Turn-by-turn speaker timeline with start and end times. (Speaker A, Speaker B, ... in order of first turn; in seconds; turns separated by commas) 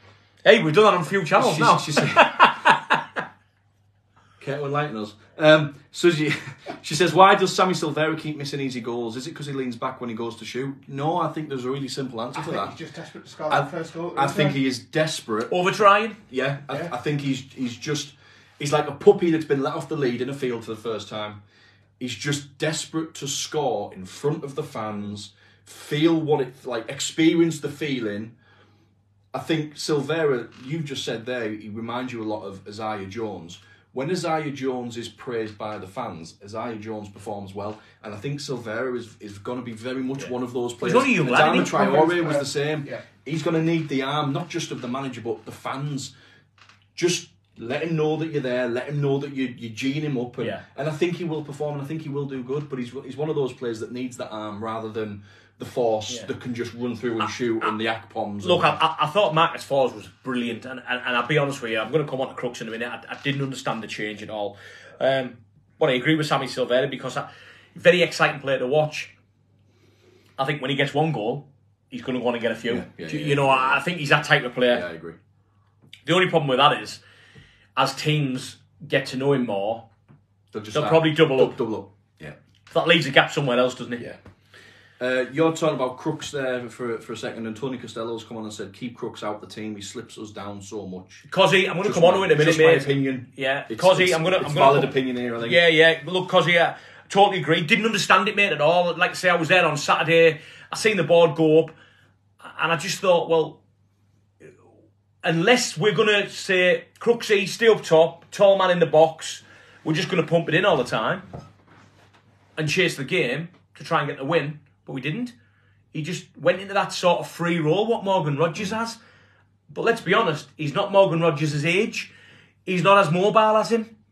Speaker A: 0.4-3.2, Speaker B: 1.4-2.5, Speaker B: 4.4-12.8, Speaker C: 12.3-14.6, Speaker B: 13.5-15.5, Speaker A: 15.5-16.2, Speaker B: 16.3-21.4, Speaker B: 22.0-28.4, Speaker B: 29.3-46.1, Speaker A: 40.8-41.8, Speaker C: 41.5-43.0, Speaker B: 47.0-58.8, Speaker A: 58.4-69.1, Speaker A: 70.4-74.8, Speaker B: 72.7-73.8, Speaker B: 74.7-75.2, Speaker A: 76.1-77.0, Speaker A: 77.8-79.9, Speaker B: 80.5-82.4, Speaker A: 80.7-81.6, Speaker A: 82.7-84.0, Speaker B: 85.0-91.3, Speaker A: 91.3-101.7, Speaker B: 91.8-95.6, Speaker A: 102.4-103.6, Speaker A: 105.2-111.3, Speaker A: 112.6-115.3, Speaker A: 115.9-119.0, Speaker A: 119.7-122.1, Speaker A: 122.7-123.9